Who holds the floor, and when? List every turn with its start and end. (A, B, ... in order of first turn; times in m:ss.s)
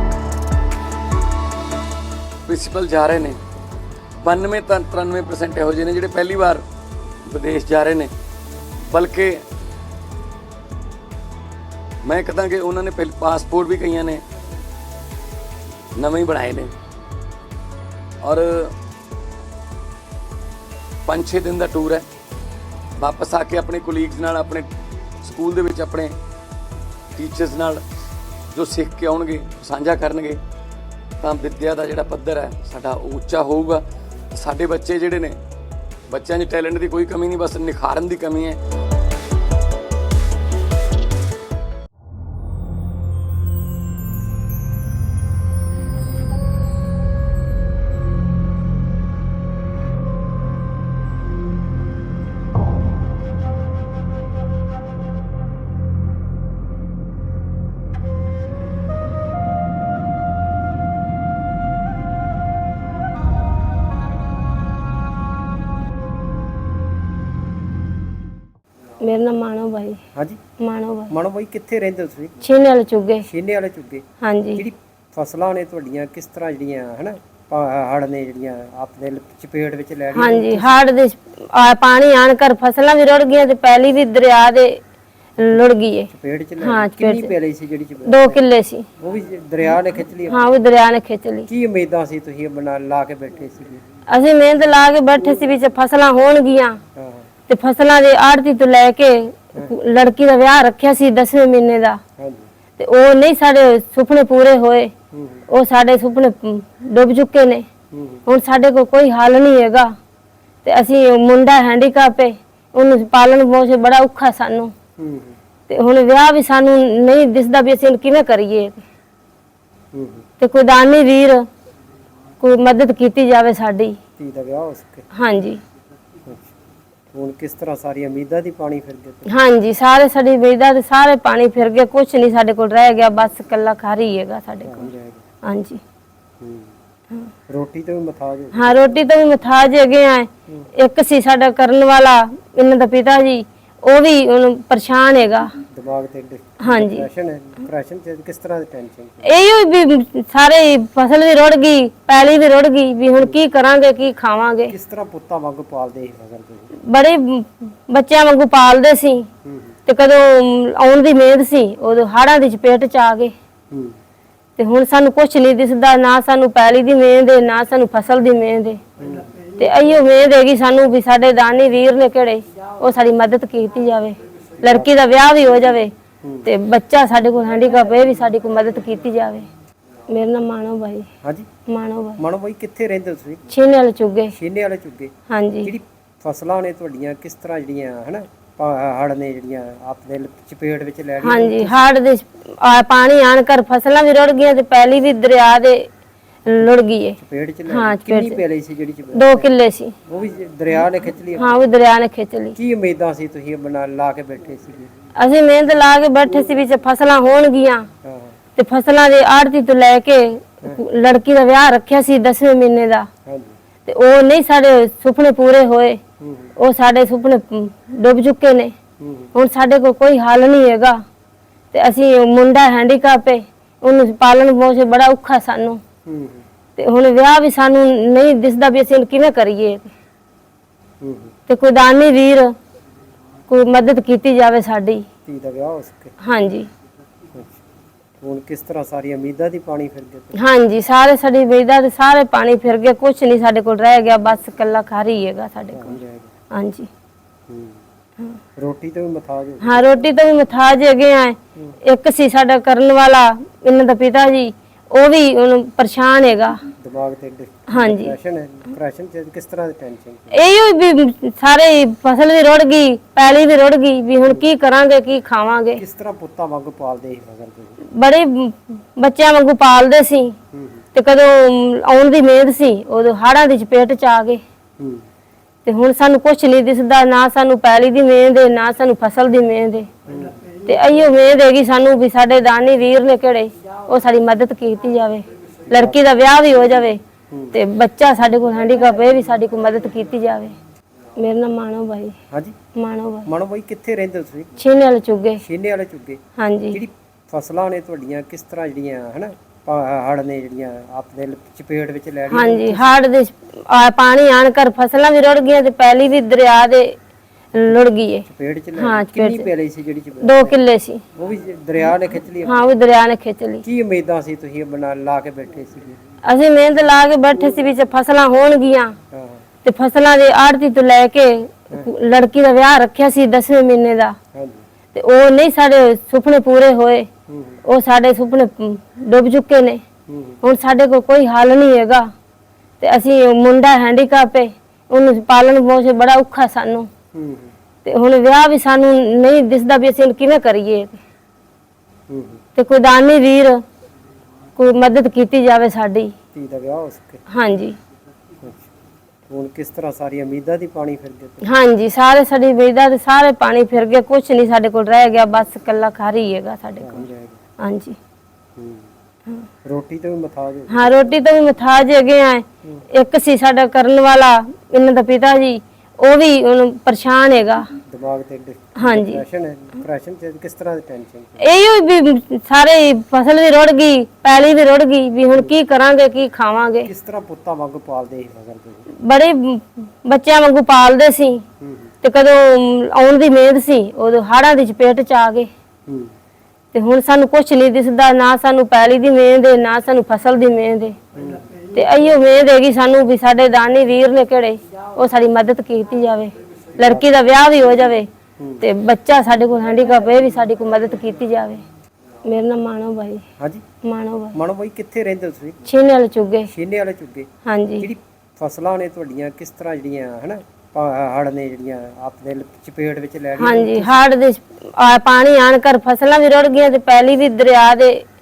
0:02.5-0:03.4 A
0:04.2-0:06.6 A
0:07.3-0:08.1 A
0:08.9-0:09.4 A
0:12.0-0:14.2 A
0:16.0-0:16.7 A
0:18.2-0:18.7 A
0:21.0-0:22.1 A
0:23.0-0:24.7 A
0:25.2-0:26.2 A
0:27.2-0:27.8 A
0:28.5-0:30.4 A
0:31.2-0:35.4 A
0:36.1-0:38.6 A
1:09.0-1:10.0 B
1:10.1-1:10.4 C
1:10.6-1:11.1 B
1:11.1-1:12.4 C
1:12.4-1:13.3 B
1:13.2-1:20.8 C
1:14.2-1:14.6 B
1:20.1-1:24.8 B
1:25.4-1:27.3 B
1:26.1-1:28.4 C
1:28.0-1:28.9 B
1:29.0-1:30.4 C
1:30.3-1:31.5 B
1:31.5-1:33.8 C
1:34.1-1:36.8 B
1:36.9-1:37.3 C
1:37.5-1:42.0 B
1:42.2-1:42.5 C
1:42.8-1:44.9 B
1:45.1-1:45.4 C
1:45.5-1:47.6 B
1:47.9-1:48.2 C
1:48.2-1:49.9 B
1:50.6-1:54.7 B
1:55.0-1:55.4 C
1:55.7-1:58.8 B
1:59.9-2:00.2 C
2:00.4-2:01.4 B
2:02.4-2:04.0 B
2:04.2-2:05.0 C
2:05.1-2:05.6 B
2:06.2-2:06.5 C
2:07.1-2:09.3 C
2:09.3-2:14.9 B
2:14.6-2:15.2 C
2:15.4-2:15.8 B
2:16.4-2:16.7 C
2:17.5-2:18.8 C
2:18.5-2:25.6 B
2:25.6-2:29.3 C
2:26.6-2:27.0 B
2:29.2-2:34.7 B
2:34.7-2:36.7 C
2:36.9-2:39.3 B
2:39.4-2:39.7 C
2:39.8-2:43.3 B
2:43.7-2:44.0 C
2:44.6-2:48.8 B
2:49.0-2:49.3 C
2:49.6-2:55.9 B
2:54.6-2:54.9 C
2:56.2-2:56.5 C
2:56.4-2:59.5 B
3:00.1-3:01.1 B
3:01.2-3:01.5 C
3:01.7-3:02.2 B
3:02.2-3:03.5 C
3:03.5-3:04.3 B
3:04.3-3:11.8 C
3:05.3-3:05.7 B
3:11.2-3:15.9 B
3:16.4-3:18.4 B
3:17.2-3:19.5 C
3:19.1-3:19.9 B
3:20.0-3:21.5 C
3:21.4-3:22.6 B
3:22.6-3:24.9 C
3:25.1-3:27.9 B
3:28.0-3:28.4 C
3:28.6-3:33.1 B
3:33.2-3:33.5 C
3:33.8-3:36.0 B
3:36.2-3:36.5 C
3:36.6-3:38.7 B
3:39.0-3:39.3 C
3:39.3-3:41.0 B
3:41.7-3:45.8 B
3:46.0-3:46.4 C
3:46.8-3:49.9 B
3:51.0-3:51.3 C
3:51.5-3:52.5 B
3:53.5-3:55.0 B
3:55.2-3:56.1 C
3:56.2-3:56.7 B
3:57.3-3:57.6 C
3:58.2-4:00.4 C
4:00.3-4:06.0 B
4:05.7-4:06.3 C
4:06.5-4:06.9 B
4:07.5-4:07.8 C
4:08.6-4:09.9 C
4:09.6-4:16.6 B
4:16.8-4:20.4 C
4:17.7-4:18.1 B
4:20.3-4:25.8 B
4:25.8-4:27.8 C
4:27.9-4:30.4 B
4:30.5-4:30.8 C
4:30.9-4:34.4 B
4:34.8-4:35.0 C
4:35.6-4:39.9 B
4:40.0-4:40.3 C
4:40.6-4:47.0 B
4:45.7-4:46.0 C
4:47.3-4:47.6 C
4:47.5-4:50.6 B
4:51.2-4:52.1 B
4:52.3-4:52.6 C
4:52.7-4:53.3 B
4:53.2-4:54.6 C
4:54.6-4:55.4 B
4:55.4-5:03.0 C
4:56.4-4:56.8 B
5:02.3-5:07.0 B
5:07.5-5:09.5 B
5:08.2-5:10.6 C
5:10.2-5:11.0 B
5:11.1-5:12.6 C
5:12.4-5:13.6 B
5:13.6-5:16.0 C
5:16.2-5:19.0 B
5:19.1-5:19.4 C
5:19.6-5:24.2 B
5:24.3-5:24.6 C
5:24.9-5:27.1 B
5:27.3-5:27.6 C
5:27.6-5:29.8 B
5:30.1-5:30.4 C
5:30.4-5:32.1 B
5:32.8-5:36.9 B
5:37.1-5:37.5 C
5:37.8-5:41.0 B
5:42.1-5:42.4 C
5:42.6-5:43.6 B
5:44.6-5:46.1 B
5:46.3-5:47.2 C
5:47.3-5:47.8 B
5:48.4-5:48.7 C
5:49.3-5:51.5 C
5:51.4-5:57.0 B
5:56.8-5:57.4 C
5:57.6-5:58.0 B
5:58.6-5:58.9 C
5:59.6-6:00.9 C
6:00.7-6:07.7 B
6:07.8-6:11.4 C
6:08.8-6:09.2 B
6:11.4-6:16.9 B
6:16.8-6:18.9 C
6:19.0-6:21.4 B
6:21.6-6:21.9 C
6:22.0-6:25.5 B
6:25.9-6:26.1 C
6:26.7-6:31.0 B
6:31.1-6:31.4 C
6:31.7-6:38.1 B
6:36.8-6:37.1 C
6:38.4-6:38.6 C
6:38.6-6:41.6 B
6:42.2-6:43.2 B
6:43.8-6:44.4 B
6:44.3-6:45.6 C
6:45.6-6:46.5 B
6:46.5-6:54.0 C
6:47.4-6:47.9 B
6:53.4-6:58.0 B